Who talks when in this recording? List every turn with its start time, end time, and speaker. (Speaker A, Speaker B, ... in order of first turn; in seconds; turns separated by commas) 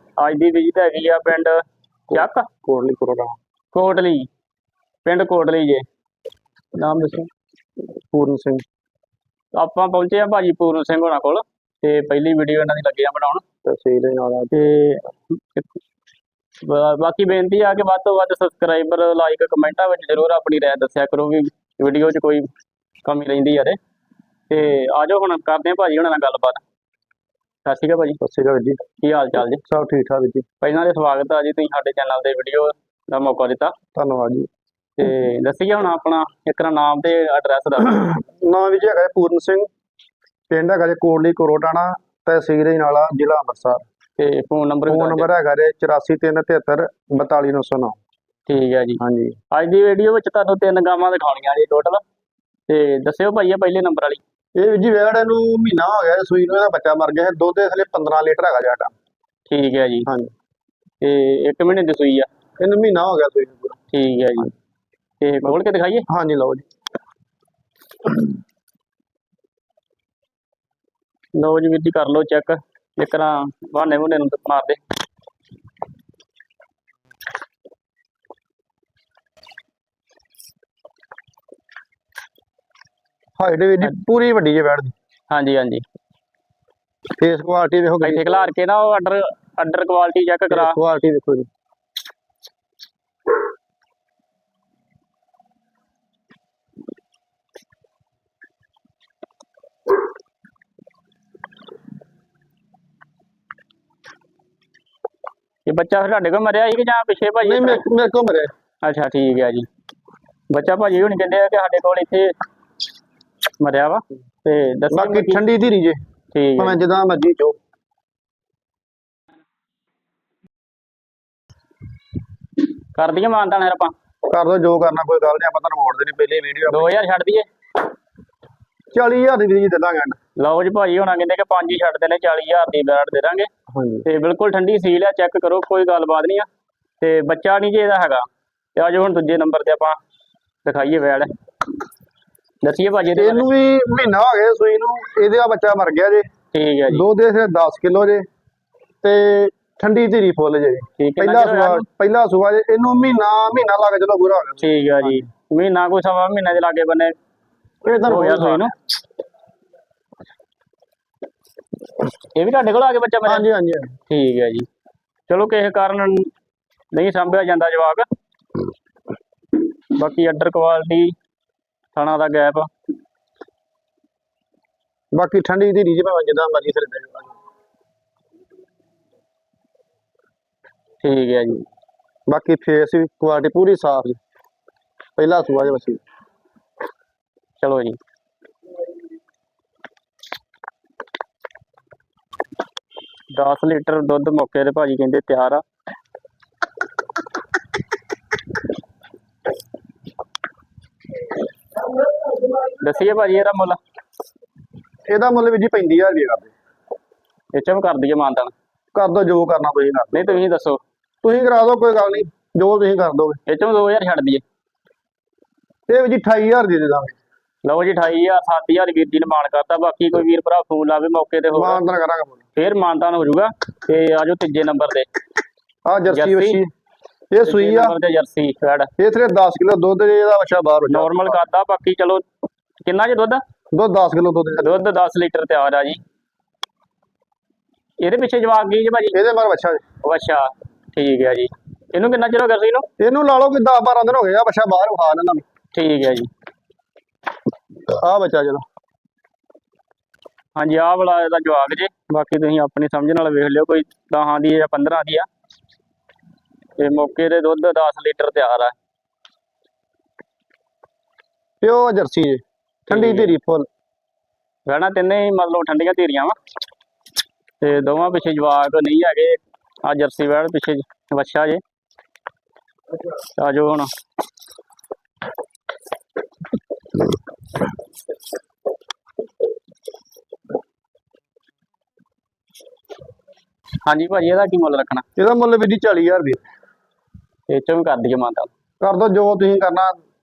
Speaker A: 0.2-1.6, Speaker B: 2.1-3.4, Speaker A: 2.1-2.5, Speaker A: 3.7-4.3, Speaker A: 5.0-5.8, Speaker A: 6.8-7.3, Speaker B: 8.1-8.6, Speaker A: 9.6-13.4, Speaker B: 13.7-14.6, Speaker A: 14.5-15.8, Speaker A: 16.6-22.5, Speaker A: 23.1-23.8, Speaker A: 24.5-26.6, Speaker A: 27.6-28.2, Speaker B: 28.2-28.8, Speaker A: 29.0-29.6, Speaker B: 29.6-30.4, Speaker A: 30.6-33.7, Speaker B: 34.0-34.5, Speaker A: 35.0-38.1, Speaker B: 38.0-39.7, Speaker B: 40.5-43.8, Speaker A: 44.2-45.3, Speaker B: 44.9-48.0, Speaker A: 48.5-52.0, Speaker B: 49.0-49.4, Speaker A: 52.7-54.2, Speaker B: 54.6-58.9, Speaker A: 59.5-60.1, Speaker B: 60.1-60.3, Speaker A: 61.0-62.3, Speaker B: 62.6-63.8, Speaker A: 63.9-64.5, Speaker A: 65.2-66.1, Speaker B: 66.1-66.7, Speaker A: 71.3-74.8, Speaker B: 83.4-84.9, Speaker A: 85.3-85.8, Speaker B: 87.2-88.5, Speaker A: 88.0-90.8, Speaker B: 90.5-91.5, Speaker A: 105.7-107.8, Speaker B: 107.4-108.5, Speaker A: 108.8-109.7, Speaker A: 110.5-112.3, Speaker A: 113.6-115.4, Speaker B: 114.9-116.0, Speaker A: 116.3-116.8, Speaker B: 116.6-117.6, Speaker A: 123.0-123.9, Speaker B: 124.3-127.0, Speaker A: 126.7-127.5, Speaker B: 128.9-130.2, Speaker A: 130.4-133.5, Speaker B: 133.7-134.1, Speaker A: 134.1-136.5, Speaker A: 137.0-138.2, Speaker A: 138.8-140.0, Speaker A: 140.7-141.3, Speaker A: 142.6-143.5, Speaker B: 143.1-146.3, Speaker A: 146.5-147.0, Speaker B: 146.9-148.2, Speaker B: 149.0-155.2, Speaker A: 151.0-151.8, Speaker A: 154.6-157.2, Speaker B: 157.8-158.7, Speaker A: 158.1-158.7, Speaker A: 162.3-163.5, Speaker B: 163.3-163.9, Speaker A: 164.1-164.7, Speaker A: 165.3-166.3, Speaker A: 166.9-168.1, Speaker A: 169.9-171.2, Speaker A: 171.9-172.7, Speaker B: 175.1-177.3, Speaker A: 181.0-181.7, Speaker B: 182.3-184.2, Speaker B: 185.2-186.0, Speaker A: 187.6-188.0, Speaker A: 193.3-195.6, Speaker A: 202.7-203.8, Speaker B: 205.1-206.5, Speaker A: 207.5-208.5, Speaker B: 208.9-210.4, Speaker A: 210.1-210.8, Speaker B: 211.2-213.4, Speaker A: 213.5-214.4, Speaker B: 215.9-217.2, Speaker A: 217.6-221.8, Speaker B: 221.5-222.4, Speaker A: 222.6-225.1, Speaker B: 225.9-226.7, Speaker A: 226.1-226.6, Speaker B: 227.3-228.0, Speaker A: 227.4-228.9, Speaker B: 229.0-231.4, Speaker A: 230.9-232.2, Speaker A: 232.8-233.4, Speaker B: 233.7-234.7, Speaker A: 234.6-236.0, Speaker A: 238.0-239.2, Speaker B: 239.1-239.8, Speaker A: 240.0-242.9, Speaker B: 243.0-245.4, Speaker A: 245.7-246.3, Speaker B: 247.9-248.6, Speaker A: 250.6-255.3, Speaker A: 256.8-258.7, Speaker B: 261.6-263.7, Speaker A: 262.9-263.3, Speaker A: 264.7-266.4, Speaker A: 267.6-271.6, Speaker A: 273.4-273.9, Speaker A: 283.8-285.1, Speaker B: 285.2-286.4, Speaker A: 287.5-288.5, Speaker B: 288.8-290.0